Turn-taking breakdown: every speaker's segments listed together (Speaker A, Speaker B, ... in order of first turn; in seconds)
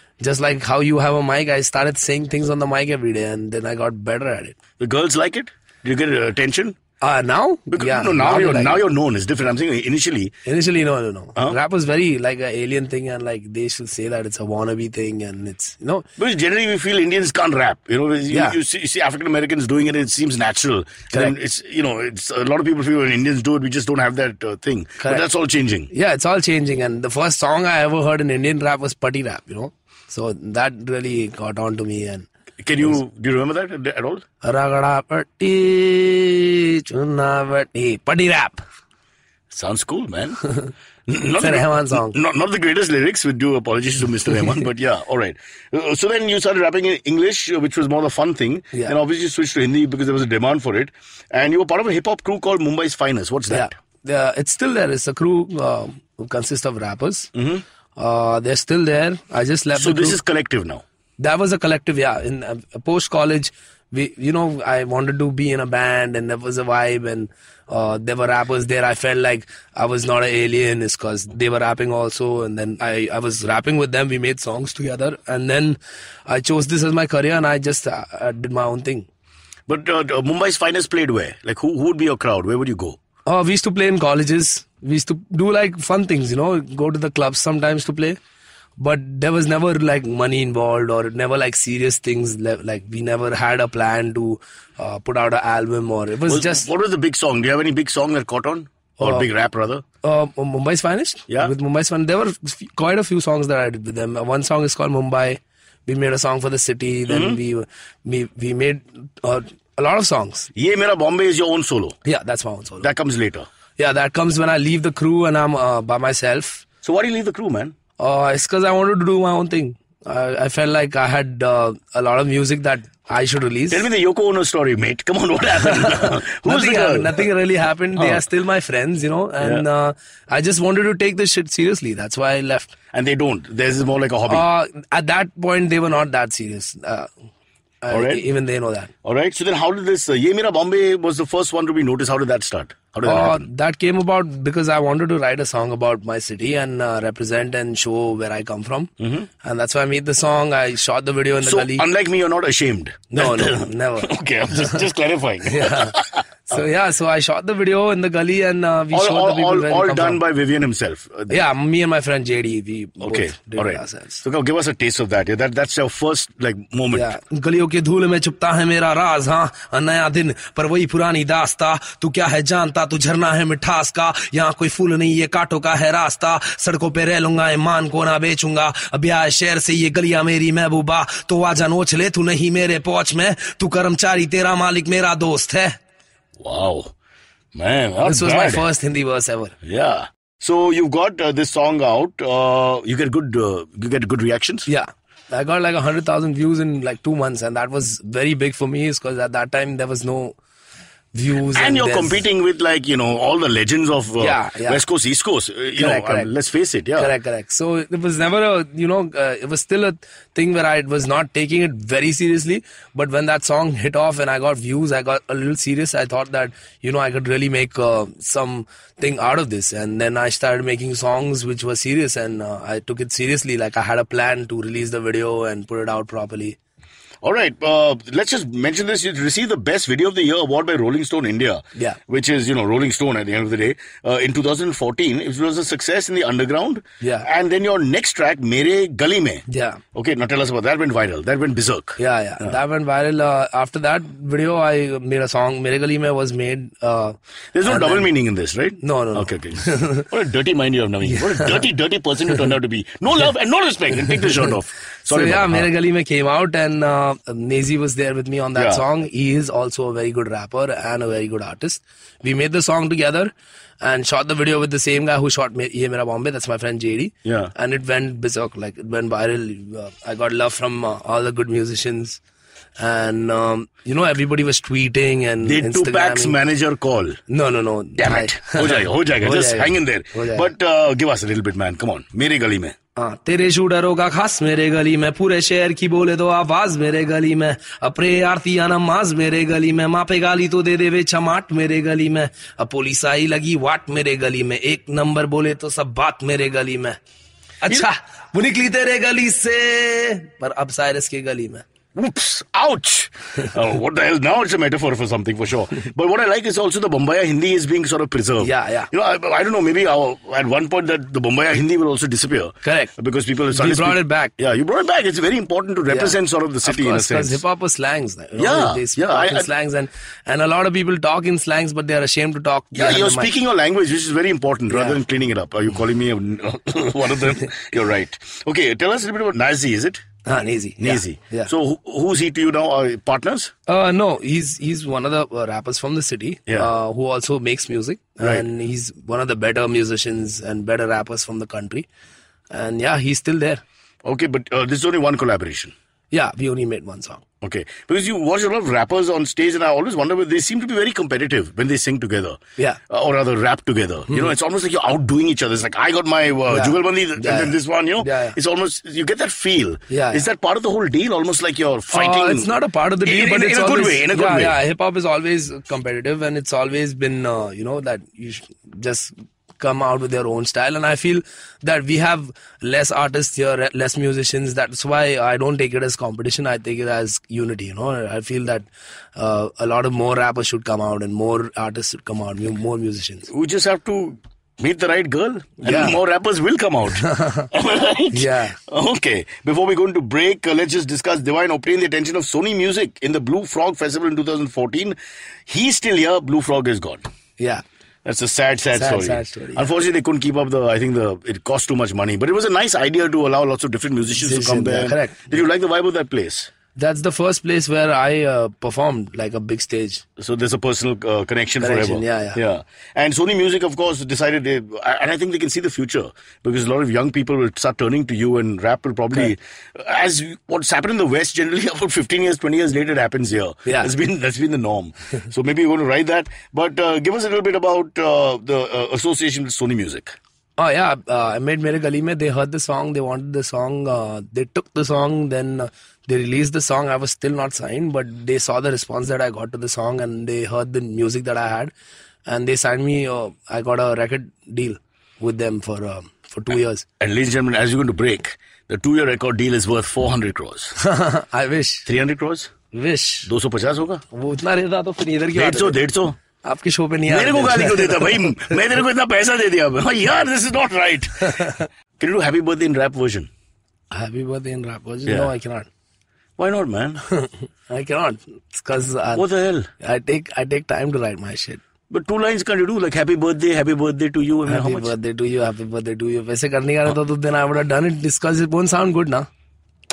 Speaker A: 0.2-4.6, 7.0-8.8, 10.4-16.1, 18.3-18.6, 25.0-25.3, 25.9-32.3, 34.4-38.6, 41.4-42.2, 53.5-57.3, 58.0-60.2, 61.2-79.1, 83.3-88.2, 88.8-96.7, 99.0-99.3, 100.0-110.5, 112.0-112.9, 113.8-116.7, 118.0-123.9, 125.7-132.8, 134.3-137.1, 137.8-138.9, 143.0-151.8, 153.1-154.8, 155.5-160.2, 161.3-164.2, 166.9-185.8, 188.0-189.6, 194.7-200.4, 201.1-202.2, 204.2-204.8, 205.8-206.3, 207.0-226.6, 237.0-237.3, 239.5-239.8, 242.0-248.1, 248.8-250.1, 251.1-251.7, 255.1-272.2, 272.8-276.4, 277.3-280.5, 283.0-297.0, 297.6-301.6, 308.4-308.9, 312.6-312.9, 313.5-314.3, 315.9-323.4, 324.7-325.0, 330.2-331.5, 333.7-341.9, 342.5-343.6, 346.1-347.2, 354.1-354.4, 356.5-358.4, 359.9-360.3, 361.9-383.3, 385.6-386.0, 387.0-387.5, 388.1-388.6, 397.4-397.6, 398.7-399.7, 404.2-405.4, 406.8-410.0, 411.6-412.4, 423.7-423.9, 430.6-441.7, 442.3-446.9, 450.8-451.9, 452.7-453.3, 454.1-455.8, 456.4-458.6, 461.4-461.6, 463.9-465.7, 467.1-469.3, 469.8-471.6, 474.4-479.3
Speaker B: 4.8-6.8, 7.7-10.3, 16.2-25.9, 32.6-34.2, 39.5-40.4, 41.1-53.7, 57.4-57.6, 59.8-60.8, 79.7-83.0, 96.3-99.8, 107.1-107.4, 110.5-112.0, 112.8-113.5, 116.8-117.7, 123.7-127.3, 128.0-128.2, 132.9-134.5, 137.9-138.2, 139.0-143.5, 149.0-149.3, 151.4-156.6, 158.9-161.4, 163.0-167.2, 186.4-186.9, 187.6-188.7, 189.6-194.7, 201.5-207.1, 227.2-242.6, 247.5-255.7, 258.6-258.8, 267.2-267.5, 275.4-277.2, 278.0-282.8, 301.9-317.4, 318.4-319.5, 322.7-330.0, 330.8-333.5, 338.2-338.5, 344.1-345.7, 347.4-352.4, 352.9-364.6, 383.3-395.0, 395.5-397.0, 398.1-406.5, 410.2-430.1, 447.0-450.8, 451.9-452.5, 453.3-454.0, 455.3-456.2, 457.1-463.3, 465.1-465.3, 466.4-467.0, 469.2-469.7, 471.9-474.9